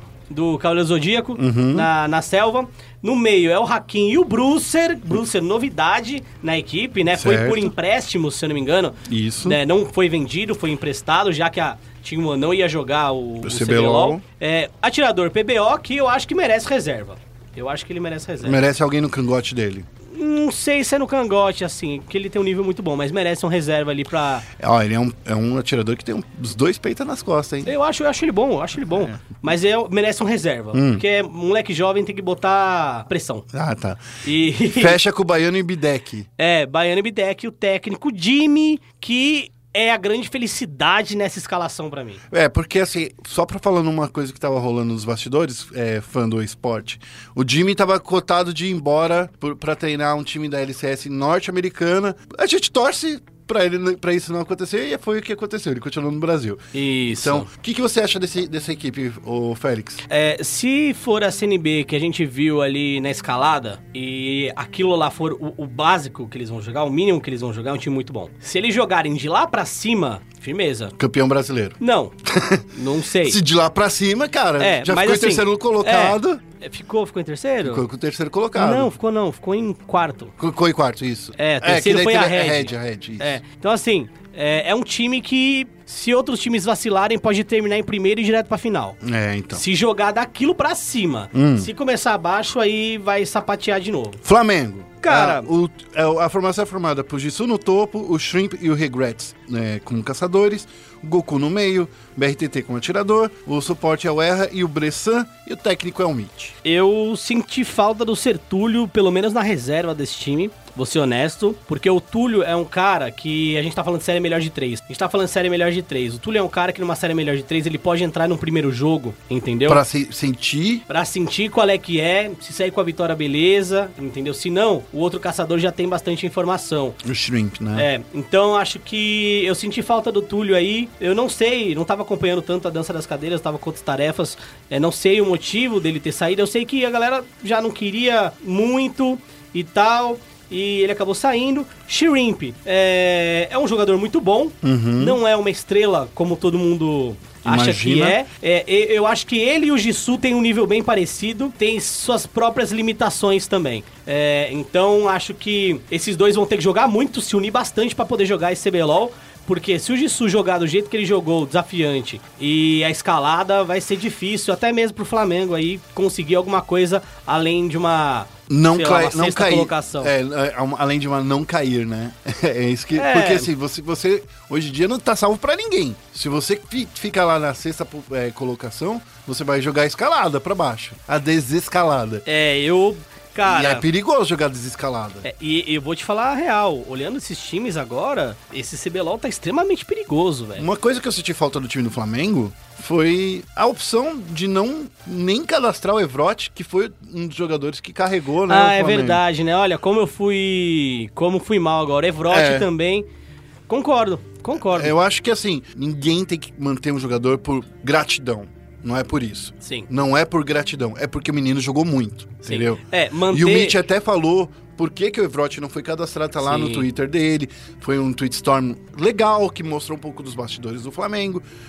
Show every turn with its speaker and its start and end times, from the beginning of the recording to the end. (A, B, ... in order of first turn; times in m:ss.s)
0:00.3-0:18.6 A
0:01.4-0:01.9 B
0:07.1-0:07.7 B
0:09.0-0:09.6 B
0:13.4-0:14.2 B
0:18.4-0:19.9 B
0:20.1-0:24.4 A
0:24.6-0:27.7 B
0:27.6-0:33.5 A
0:30.7-0:31.0 B
0:33.5-0:34.0 B
0:34.2-0:35.0 A
0:34.7-0:36.3 B
0:36.4-0:42.2 A
0:42.3-1:00.0 B
0:56.7-0:57.5 A
1:00.1-1:10.9 A
1:11.0-1:16.4 B
1:11.8-1:12.2 A
1:12.7-1:13.4 A
1:14.6-1:17.9 A
1:17.6-1:18.9 B
1:18.5-1:20.3 A
1:20.4-1:23.4 B
1:21.4-1:29.0 A
1:29.0-1:29.6 B
1:29.5-1:34.2 A
1:31.3-1:31.7 B
1:34.2-1:46.6 B
1:35.0-1:35.5 A
1:46.6-1:59.8 A
1:59.7-2:00.8 B
2:00.9-2:07.0 A
2:07.0-2:07.9 B
2:07.8-2:50.1 A
2:24.6-2:25.2 B
2:27.4-2:28.2 B
2:48.5-3:02.2 B
2:52.9-2:53.5 A
3:02.3-3:03.8 A
3:03.4-3:05.3 B
3:05.2-3:10.6 A
3:10.6-3:19.2 B
3:18.5-3:23.1 A
3:22.3-3:22.7 B
3:23.7-3:24.9 A
3:24.7-3:41.4 B
3:29.6-3:29.9 A
3:32.4-3:33.8 A
3:36.4-3:36.9 A